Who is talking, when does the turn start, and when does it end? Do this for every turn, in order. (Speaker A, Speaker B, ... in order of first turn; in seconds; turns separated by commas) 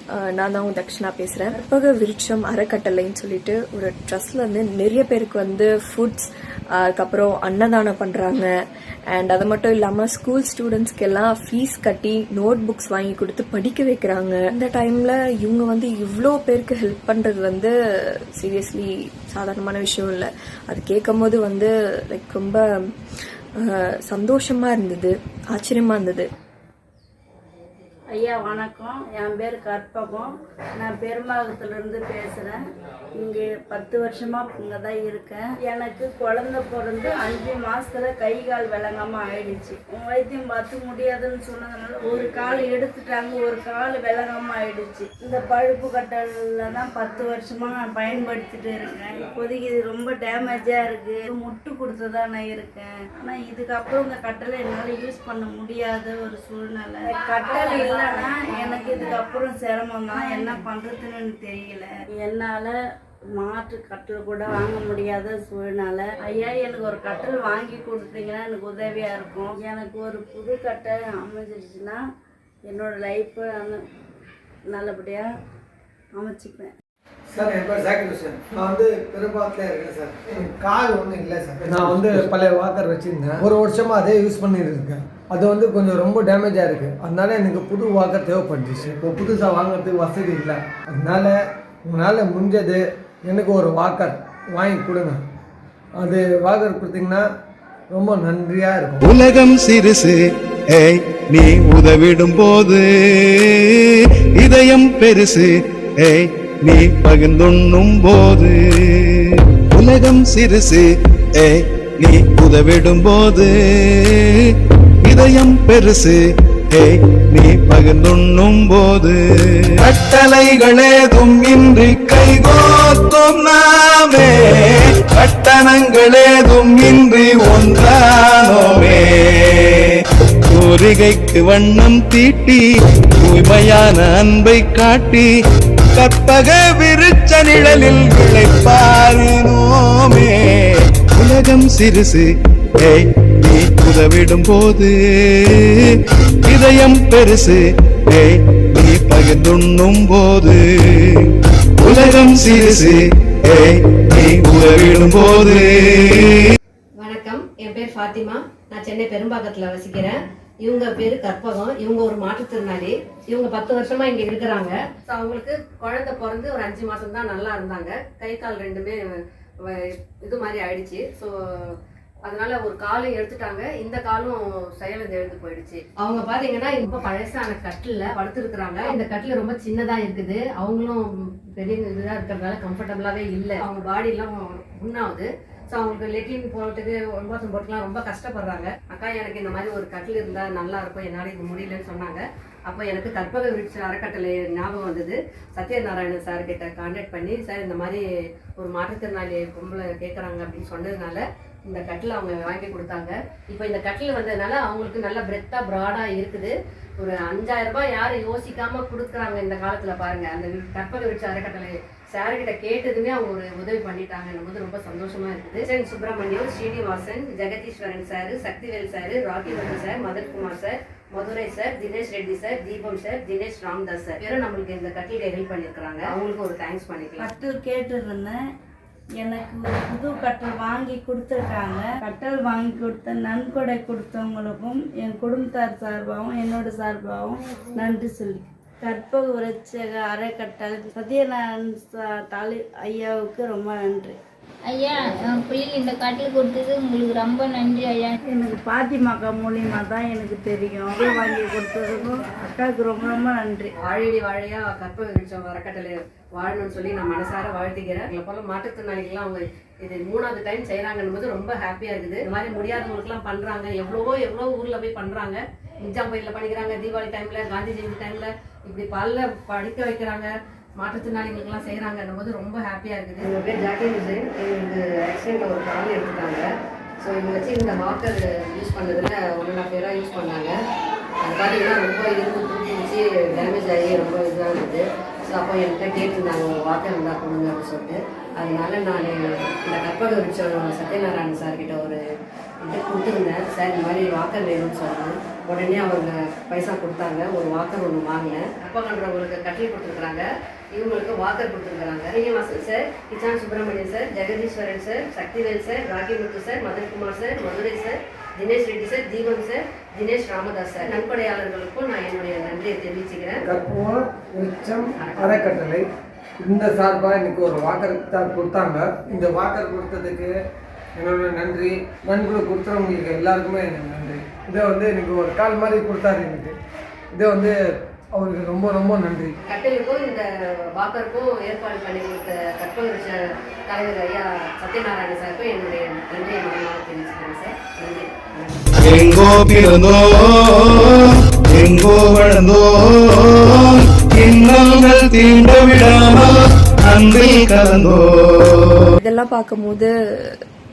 Speaker A: 0.1-8.5, Speaker A: 9.1-22.9, Speaker A: 23.6-26.3, Speaker B: 28.1-32.6, Speaker B: 33.2-62.8, Speaker B: 63.4-72.0, Speaker B: 72.7-73.8, Speaker B: 74.7-75.3, Speaker B: 76.2-76.8, Speaker C: 77.3-91.3, Speaker C: 91.9-95.2, Speaker C: 96.0-97.2, Speaker C: 97.9-99.0, Speaker D: 99.0-100.2, Speaker D: 100.7-114.5, Speaker D: 115.0-116.2, Speaker D: 116.7-132.7, Speaker D: 133.2-135.3, Speaker D: 135.9-156.5, Speaker E: 157.0-169.0, Speaker E: 169.7-171.8, Speaker E: 172.3-198.0, Speaker E: 198.6-227.3, Speaker B: 227.2-228.4, Speaker B: 229.2-244.2, Speaker F: 244.7-248.2, Speaker B: 248.3-253.7, Speaker E: 253.8-276.5, Speaker E: 277.0-280.6, Speaker E: 281.2-292.0, Speaker E: 292.6-313.4, Speaker C: 313.5-315.8, Speaker E: 315.0-315.5, Speaker C: 316.4-320.3, Speaker C: 321.0-326.6, Speaker C: 327.1-327.6, Speaker C: 328.2-329.3, Speaker E: 329.5-330.2, Speaker E: 330.8-333.2, Speaker E: 333.7-338.8, Speaker D: 338.8-348.9, Speaker A: 349.0-350.4